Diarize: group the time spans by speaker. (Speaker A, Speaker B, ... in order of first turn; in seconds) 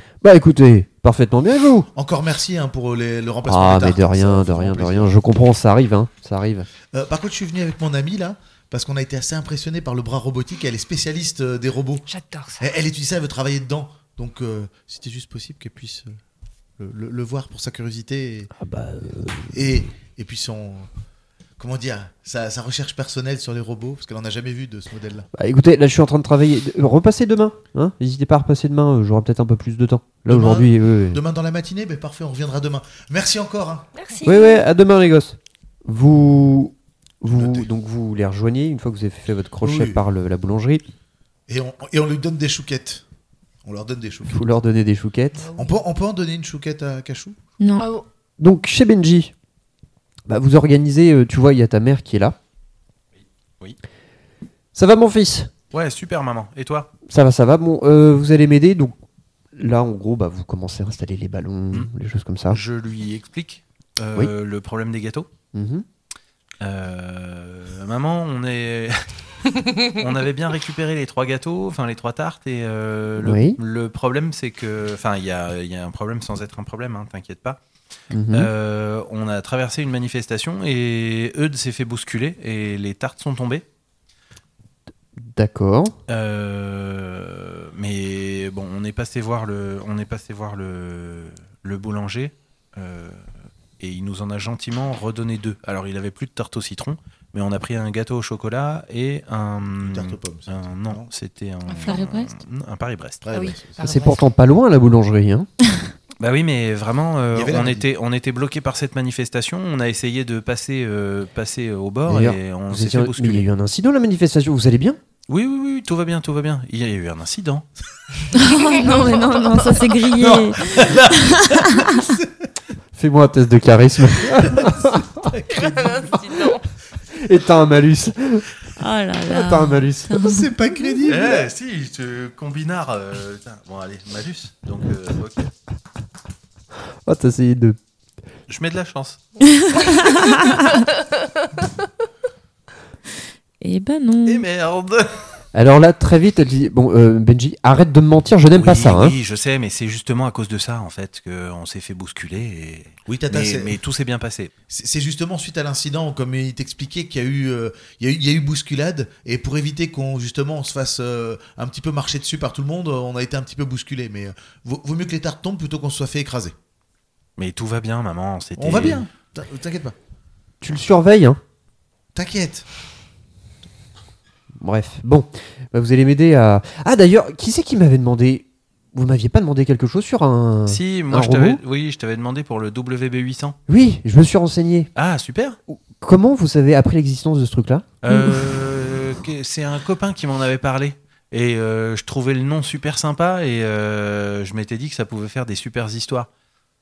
Speaker A: 0.2-1.9, 3.5-6.7, 18.6-19.7, 25.3-31.2, 34.2-40.8, 44.3-45.5, 48.4-49.3, 50.3-52.4, 54.7-55.5, 57.1-59.0, 59.5-62.6, 65.5-65.9, 73.2-73.6, 78.1-78.5, 85.2-86.0, 103.8-105.5, 112.1-115.0, 123.0-125.3, 127.1-128.5, 129.2-130.2, 137.1-137.8, 145.5-149.2, 170.6-171.4, 174.6-181.6, 183.7-184.9, 185.7-187.9
Speaker B: 1.9-5.2, 6.9-12.1, 12.6-16.2, 16.8-18.5, 19.5-20.9, 21.6-25.3, 30.3-33.9, 37.3-37.7, 39.6-40.0, 41.5-43.0, 43.6-44.5, 45.5-47.4, 99.8-101.1, 103.2-103.9, 107.3-107.9, 120.1-122.5, 124.3-126.5, 130.2-131.5, 153.1-153.8, 154.7-166.6, 168.6-169.9, 172.1-172.7
Speaker C: 12.1-12.7, 34.0-34.6, 45.4-45.8, 47.8-48.1, 101.7-102.0, 103.3-104.2, 118.5-119.9, 125.5-126.6
Speaker D: 47.6-47.9, 101.8-102.4, 118.3-122.1, 128.8-130.9, 139.4-140.9, 143.6-144.4, 188.1-188.4
Speaker E: 55.7-56.9, 62.5-65.3, 66.6-77.6, 78.3-83.6, 86.1-93.2, 93.8-103.2, 106.2-113.5, 115.3-117.7, 131.1-135.5, 138.5-139.2, 144.3-145.2, 148.6-154.5, 167.4-169.1, 180.7-183.6, 184.9-185.6, 188.0-196.3